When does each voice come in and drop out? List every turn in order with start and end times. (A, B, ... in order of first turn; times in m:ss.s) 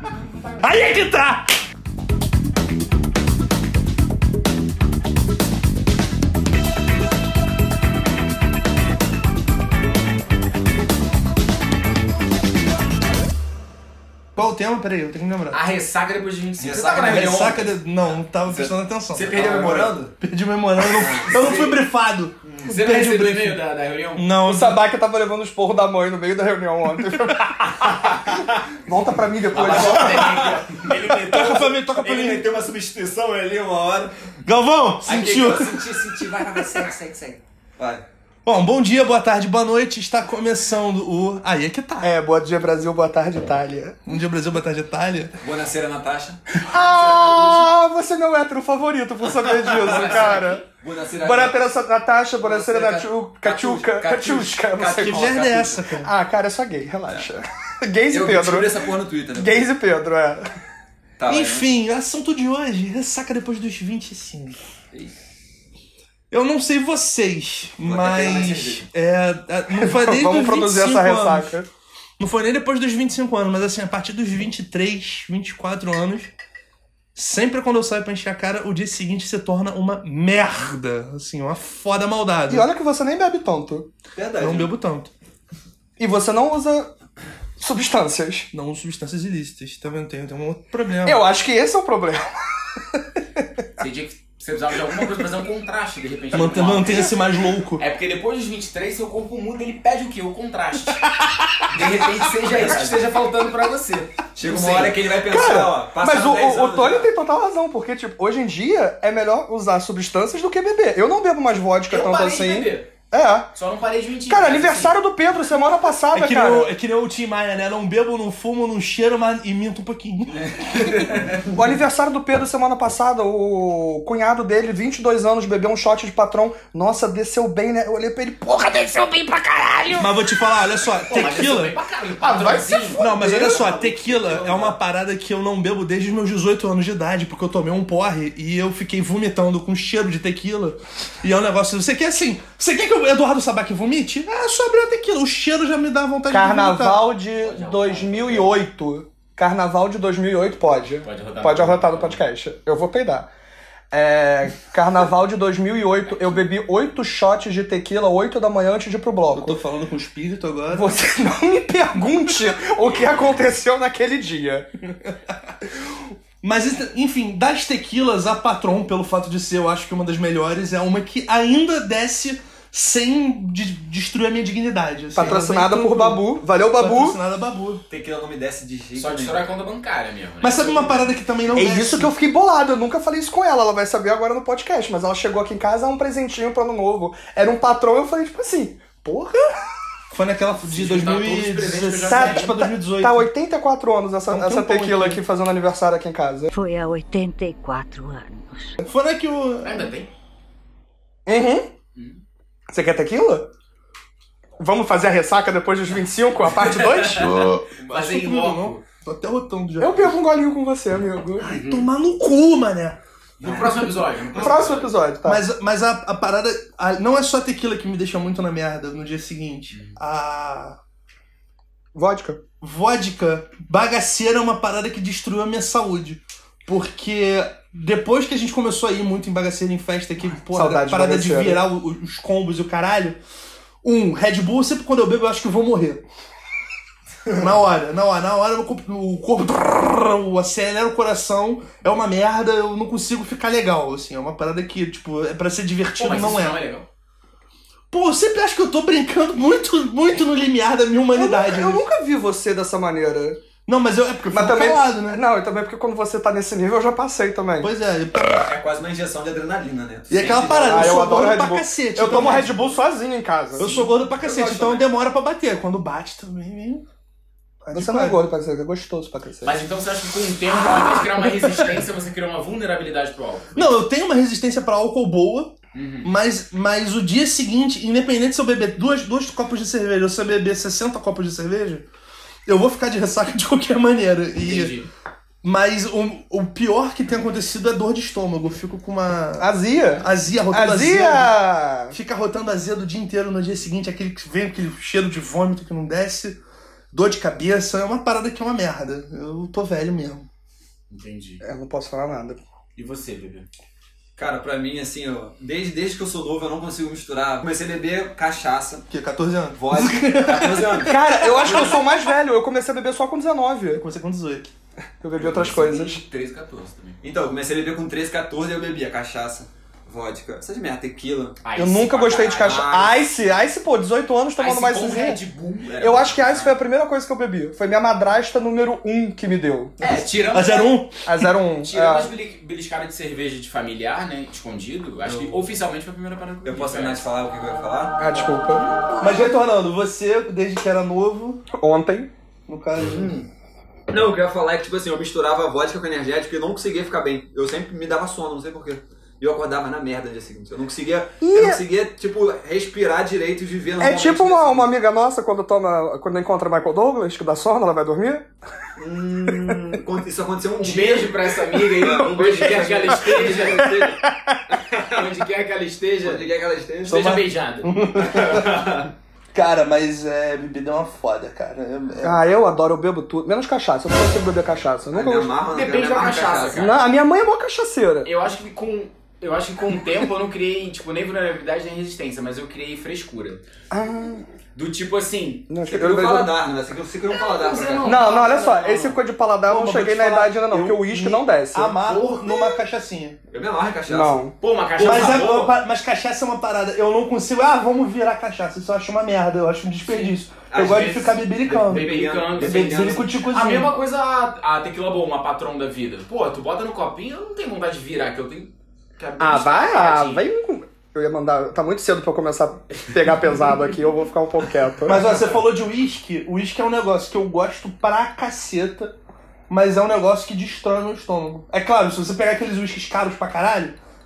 0:00.6-0:01.6 A
0:14.3-0:15.6 A
0:15.5-0:17.7 B
0:16.6-0:17.5 C
0:17.0-0:23.6 A
0:18.4-0:20.1 C
0:19.2-0:19.9 B
0:21.0-0:21.8 C
0:21.3-0:21.7 B
0:22.4-0:22.8 C
0:22.6-0:24.3 B
0:24.2-0:24.8 A
0:24.4-0:27.8 D
0:27.2-0:27.6 A
0:28.8-0:30.4 D
0:29.5-0:31.2 B
0:29.5-0:34.2 C
0:30.0-0:30.7 A
0:31.1-0:31.6 D
0:31.3-0:32.4 A
0:34.4-0:36.0 A
0:35.0-0:38.0 C
0:36.6-0:36.8 A
0:38.4-0:42.1 A
0:42.0-0:44.1 D
0:44.1-0:45.4 A
0:45.4-0:47.7 C
0:46.6-0:50.6 D
0:49.8-0:50.6 B
0:49.9-0:51.7 C
0:51.2-0:55.4 D
0:52.4-0:55.8 C
0:55.0-0:56.1 A
0:56.0-1:00.4 D
0:58.1-0:59.7 C
1:01.2-1:01.7 C
1:01.3-1:04.6 A
1:06.3-1:11.6 A
1:07.8-1:08.9 C
1:09.8-1:11.7 D
1:12.2-1:16.3 A
1:17.1-1:22.7 A
1:22.5-1:23.9 D
1:24.1-1:24.7 C
1:24.4-1:25.1 A
1:26.0-1:26.9 D
1:27.6-1:28.5 D
1:28.5-1:31.2 A
1:31.0-1:33.4 D
1:33.8-1:37.1 B
1:36.3-1:37.8 A
1:37.8-1:41.1 B
1:41.7-1:45.0 B
1:42.4-1:43.1 C
1:44.3-1:47.1 C
1:45.1-1:53.5 D
1:51.9-1:52.9 B
1:53.6-1:55.0 B
1:54.3-1:56.7 D
1:56.1-2:01.4 A
2:01.4-2:10.1 D
2:10.0-2:11.8 A
2:11.0-2:13.0 B
2:12.2-2:14.7 D
2:13.0-2:27.1 A
2:26.3-2:33.3 D
2:27.4-2:28.6 B
2:31.0-2:32.2 B
2:33.9-2:39.6 D
2:36.1-2:36.4 B
2:39.3-2:41.0 A
2:40.7-2:44.7 D
2:45.0-2:45.7 A
2:46.4-2:57.8 A
2:55.1-2:57.2 D
2:57.9-2:59.4 C
2:58.9-3:01.1 B
3:00.4-3:02.1 A
3:01.5-3:09.6 D
3:10.1-3:13.3 A
3:10.6-3:12.6 B
3:12.0-3:16.5 D
3:14.3-3:15.2 A
3:16.5-3:18.8 E
3:18.8-3:19.9 A
3:19.6-3:20.1 B
3:21.2-3:21.7 D
3:22.0-3:22.2 B
3:22.7-3:23.5 D
3:24.6-3:27.4 D
3:26.6-3:28.8 B
3:27.2-3:30.2 A
3:29.8-3:31.6 D
3:31.4-3:33.0 A
3:31.5-3:31.9 B
3:33.4-3:34.9 B
3:34.3-3:35.4 D
3:35.2-3:40.8 A
3:41.9-3:42.4 D
3:42.6-3:53.2 A
3:50.5-3:51.6 D
3:53.8-3:56.0 A
3:57.3-4:06.6 A
4:06.0-4:06.9 B
4:07.9-4:11.9 A
4:11.1-4:13.4 D
4:13.7-4:15.2 A
4:14.3-4:17.7 D
4:17.6-4:18.5 A
4:18.4-4:21.1 C
4:20.1-4:22.8 A
4:20.6-4:23.7 D
4:23.6-4:26.8 A
4:23.6-4:23.9 B
4:24.2-4:24.8 D
4:27.7-4:29.6 D
4:27.7-4:28.2 A
4:29.4-4:33.8 B
4:31.4-4:31.7 A
4:33.6-4:41.9 A
4:35.7-4:36.1 B
4:42.5-4:44.8 A
4:44.4-4:44.9 B
4:45.4-4:49.5 A
4:49.4-4:52.0 D
4:50.0-4:51.4 A
4:51.9-4:56.4 A
4:56.9-5:00.3 A
5:00.9-5:01.4 B
5:01.4-5:02.4 D
5:02.8-5:03.5 B
5:04.2-5:08.9 C
5:08.9-5:11.9 A
5:09.6-5:11.8 C
5:10.8-5:13.8 D
5:13.8-5:14.5 A
5:15.0-5:16.0 D
5:15.2-5:17.0 B
5:17.0-5:21.4 C
5:21.4-5:22.8 B
5:21.6-5:25.2 D
5:22.4-5:23.0 C
5:24.4-5:26.6 B
5:25.8-5:29.9 D
5:29.8-5:30.8 B
5:30.3-5:31.3 A
5:31.0-5:32.1 D
5:31.6-5:37.1 B
5:35.1-5:35.4 C
5:36.5-5:38.0 C
5:38.0-5:38.7 D
5:39.0-5:41.4 A
5:41.6-5:42.1 D
5:42.5-5:43.1 A
5:42.8-5:43.3 C
5:43.9-5:54.7 C
5:51.2-5:51.6 D
5:53.8-5:58.3 D
5:58.8-6:04.0 C
6:00.5-6:03.7 B
6:03.2-6:04.4 D
6:04.7-6:06.3 B
6:06.0-6:07.1 C
6:06.8-6:07.7 B
6:06.8-6:08.7 A
6:08.0-6:08.9 C
6:09.3-6:12.2 A
6:12.0-6:15.4 D
6:14.9-6:16.8 C
6:15.5-6:16.8 B
6:16.6-6:18.1 D
6:18.0-6:23.4 B
6:23.7-6:24.3 D
6:24.6-6:25.5 B
6:25.5-6:26.3 D
6:25.6-6:28.0 C
6:27.2-6:29.0 B
6:27.8-6:32.5 D
6:29.5-6:33.2 A
6:33.3-6:34.2 C
6:33.9-6:34.4 D
6:34.4-6:35.6 B
6:34.8-6:43.8 A
6:40.5-6:43.1 C
6:41.4-6:50.2 B
6:49.2-6:55.1 D
6:54.8-6:58.9 A
6:59.5-7:03.8 A